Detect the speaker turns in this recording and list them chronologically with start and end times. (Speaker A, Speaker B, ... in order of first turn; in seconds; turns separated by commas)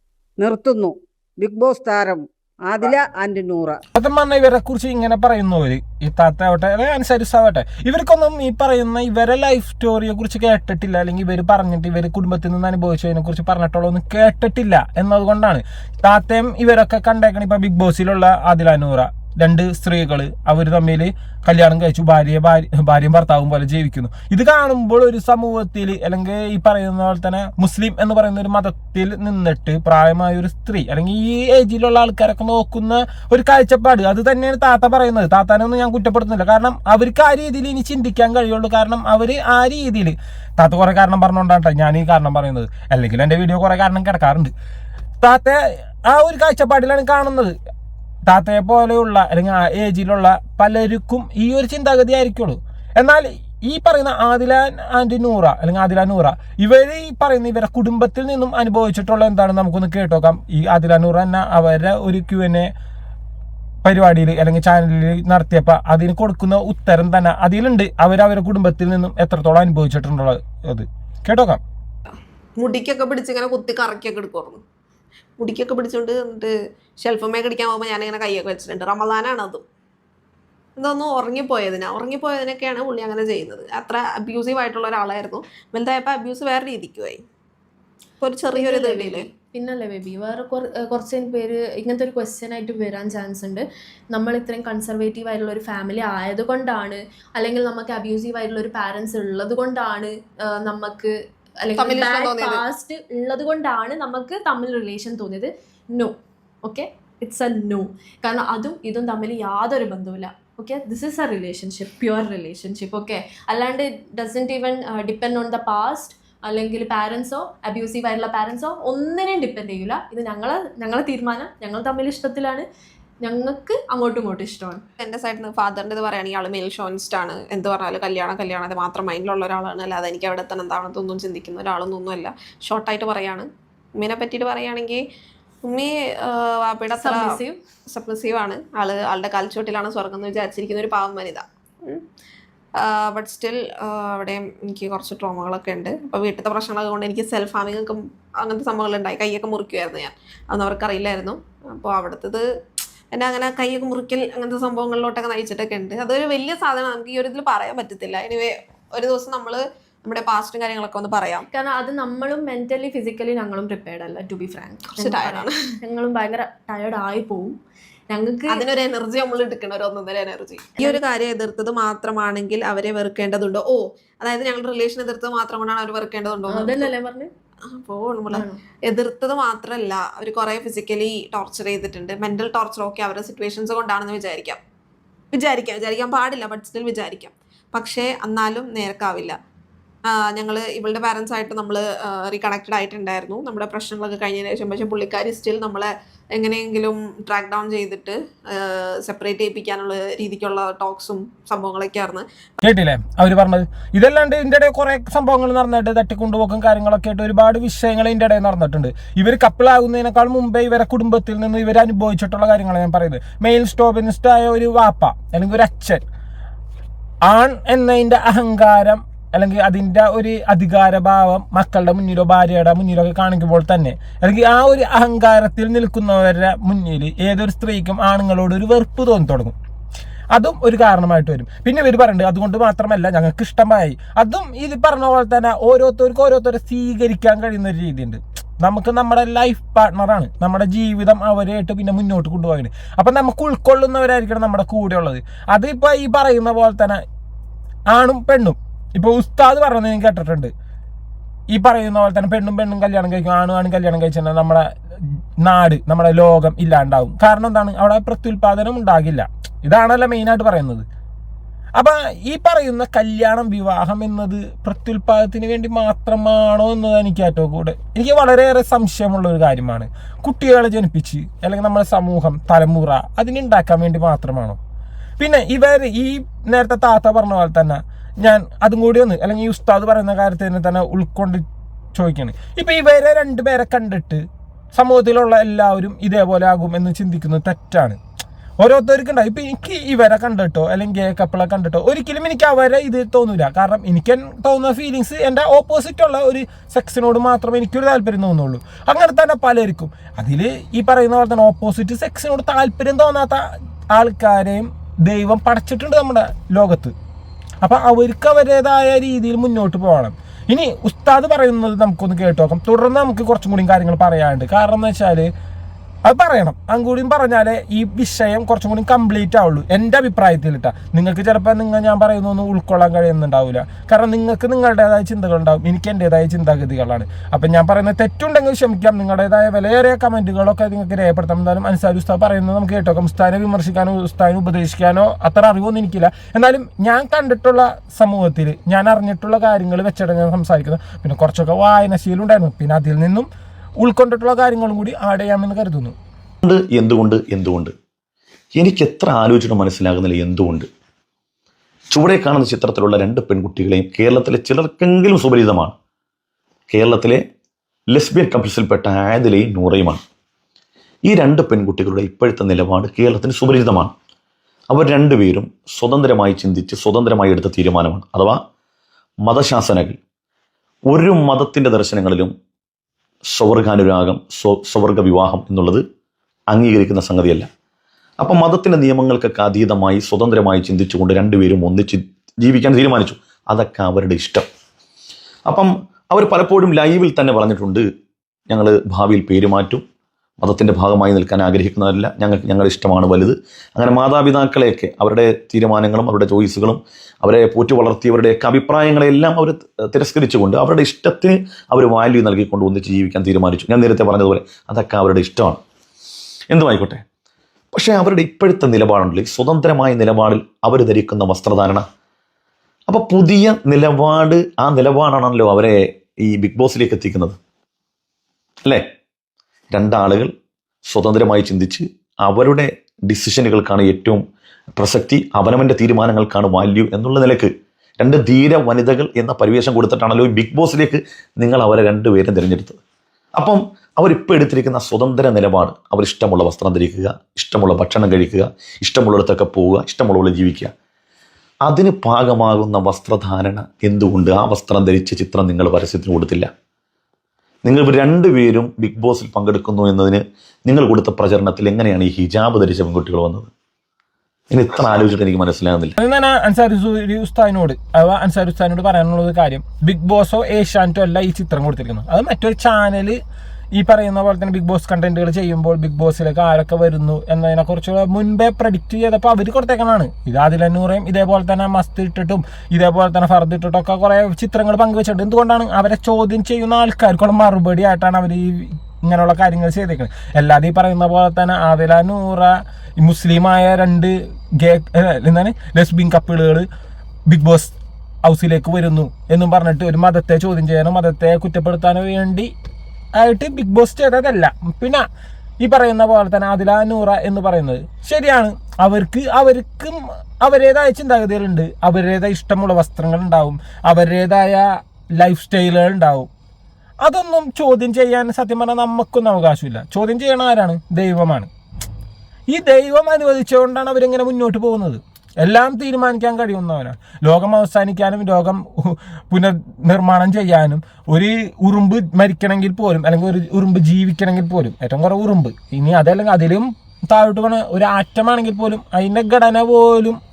Speaker A: 0.4-3.8, Speaker B: 3.9-44.5, Speaker B: 45.2-47.5, Speaker B: 48.3-62.7, Speaker B: 63.8-71.6, Speaker C: 72.6-74.6, Speaker C: 75.4-79.6, Speaker C: 80.8-87.2, Speaker C: 88.2-89.3, Speaker D: 88.5-122.7, Speaker C: 101.8-102.6, Speaker D: 123.2-124.8, Speaker C: 125.0-135.0, Speaker C: 135.6-137.4, Speaker D: 137.0-137.6, Speaker C: 137.9-142.0, Speaker C: 142.8-152.4, Speaker C: 153.1-161.5, Speaker D: 161.5-167.6, Speaker C: 164.9-165.7, Speaker D: 168.1-168.7, Speaker C: 168.5-176.9, Speaker D: 176.5-177.3, Speaker C: 177.7-184.6, Speaker D: 178.3-178.6, Speaker C: 185.3-189.4, Speaker C: 190.1-202.2, Speaker B: 202.6-216.0, Speaker B: 217.3-229.5, Speaker B: 230.3-247.0, Speaker B: 247.9-250.5, Speaker B: 251.5-254.7, Speaker B: 255.4-260.8, Speaker B: 261.8-274.6, Speaker B: 275.2-284.2, Speaker B: 284.7-288.0, Speaker B: 288.6-306.9, Speaker B: 307.6-315.3, Speaker B: 316.0-343.3, Speaker B: 343.8-345.9, Speaker E: 346.4-347.7, Speaker E: 348.5-350.7, Speaker E: 351.9-355.7, Speaker E: 356.7-357.2, Speaker E: 357.9-360.0, Speaker E: 361.1-363.9, Speaker E: 364.7-368.4, Speaker E: 369.2-370.0, Speaker E: 370.9-372.3, Speaker E: 373.3-375.8, Speaker E: 376.5-377.5, Speaker E: 378.2-384.4, Speaker E: 385.5-387.9, Speaker E: 388.5-389.8, Speaker E: 390.4-405.6, Speaker E: 406.5-407.0, Speaker E: 407.7-411.9, Speaker E: 412.9-417.4, Speaker E: 419.7-420.3, Speaker E: 420.9-424.2, Speaker E: 424.8-432.8, Speaker E: 433.4-440.7, Speaker E: 441.6-446.5, Speaker E: 447.6-453.5, Speaker E: 454.5-456.0, Speaker B: 456.0-463.2, Speaker B: 463.8-486.7, Speaker B: 487.3-492.5, Speaker B: 493.1-495.0, Speaker B: 495.6-506.3, Speaker B: 507.0-511.5, Speaker B: 512.5-530.2